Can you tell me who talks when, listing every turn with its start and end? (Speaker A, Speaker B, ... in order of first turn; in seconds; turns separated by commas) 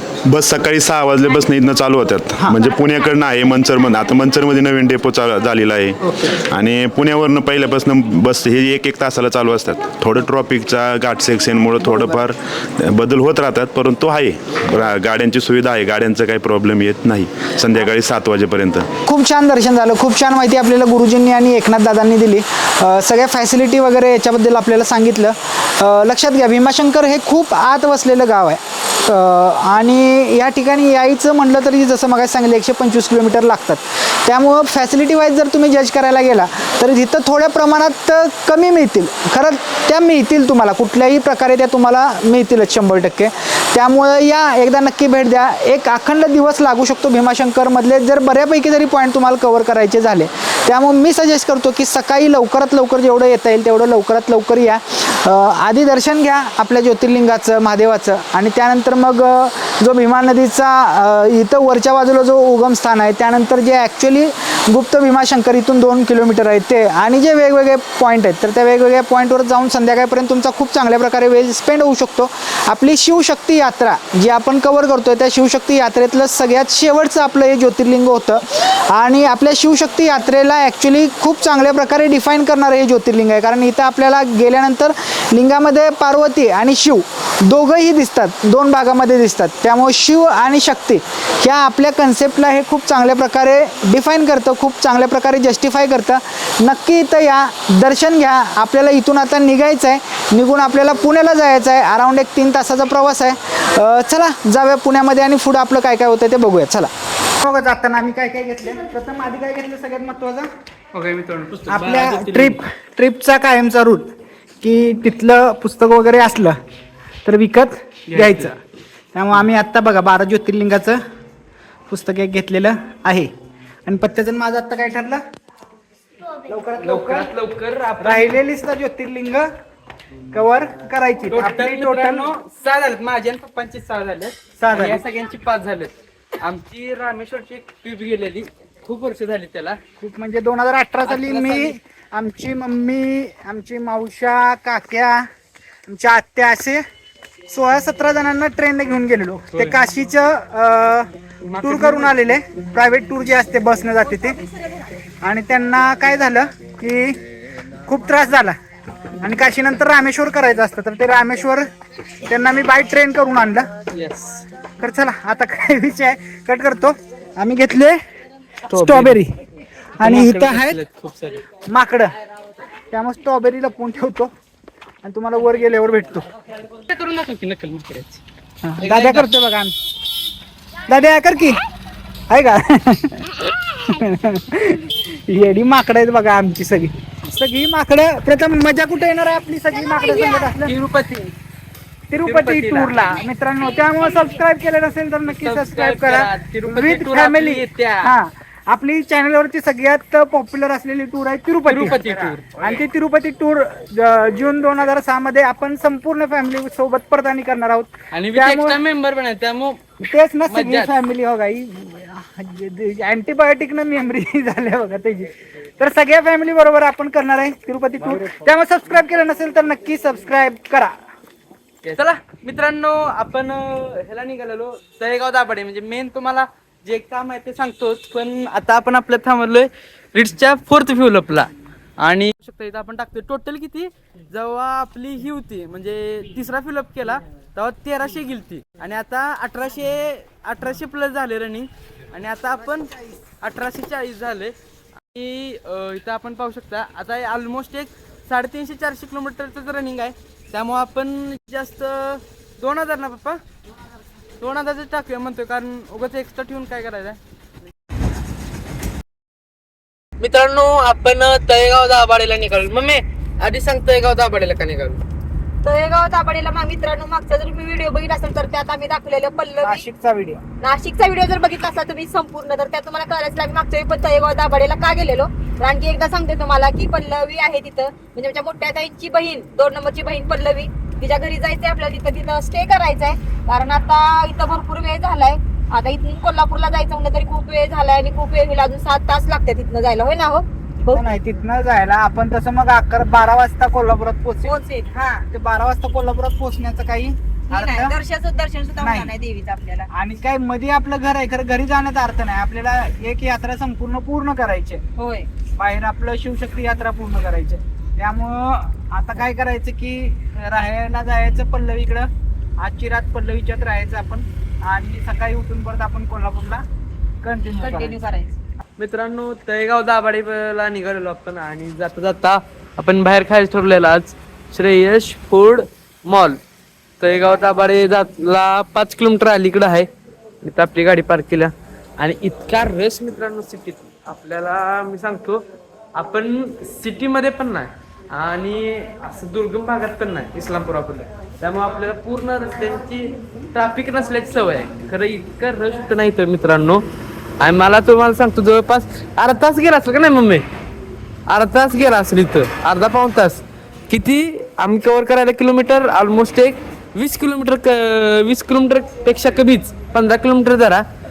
Speaker A: 0.2-18.9, Speaker B: 6.0-6.4, Speaker B: 11.8-12.2, Speaker B: 19.0-110.5, Speaker C: 110.9-112.6, Speaker B: 111.7-116.6, Speaker B: 117.2-118.6, Speaker C: 118.1-118.5, Speaker B: 119.1-121.0, Speaker B: 121.9-123.3, Speaker B: 123.8-125.2, Speaker B: 126.5-127.3, Speaker C: 126.8-128.4, Speaker B: 128.0-129.5, Speaker B: 130.3-132.3, Speaker C: 131.3-139.8, Speaker B: 134.6-135.0, Speaker B: 140.0-145.3, Speaker C: 141.0-141.8, Speaker B: 145.9-146.8, Speaker B: 147.5-151.1, Speaker C: 149.5-149.8, Speaker C: 151.4-152.2, Speaker B: 151.6-154.4, Speaker B: 155.2-157.2, Speaker B: 157.8-158.6, Speaker B: 159.2-161.7, Speaker B: 162.2-163.7, Speaker C: 163.9-164.4, Speaker B: 164.8-168.0, Speaker C: 168.7-169.2, Speaker B: 168.7-169.4, Speaker B: 170.0-170.8, Speaker C: 170.0-171.4, Speaker B: 171.7-172.1, Speaker B: 172.9-174.3, Speaker B: 175.0-176.3, Speaker C: 176.9-178.2, Speaker B: 178.6-179.7, Speaker C: 178.8-179.3, Speaker B: 180.9-181.6, Speaker B: 182.3-190.7, Speaker C: 190.4-191.3, Speaker B: 192.1-208.8, Speaker C: 192.2-193.2, Speaker C: 195.3-198.1, Speaker C: 201.7-202.8, Speaker C: 208.1-209.8, Speaker B: 210.0-220.9, Speaker C: 210.5-210.9, Speaker C: 218.0-218.4, Speaker C: 221.8-244.5, Speaker C: 245.1-253.4, Speaker C: 254.4-257.2, Speaker C: 260.2-265.0, Speaker D: 265.6-269.8, Speaker B: 269.6-270.4, Speaker D: 270.6-291.1, Speaker B: 290.9-294.6, Speaker D: 294.4-295.2, Speaker B: 295.2-297.9, Speaker D: 297.5-299.9, Speaker B: 298.8-299.1, Speaker B: 299.9-304.8, Speaker D: 305.0-305.3, Speaker B: 305.6-316.6, Speaker B: 317.2-318.0, Speaker D: 317.6-318.3, Speaker C: 318.8-326.4, Speaker C: 327.0-329.9, Speaker C: 330.4-335.4, Speaker C: 335.9-346.8, Speaker C: 347.4-350.4, Speaker C: 351.3-360.8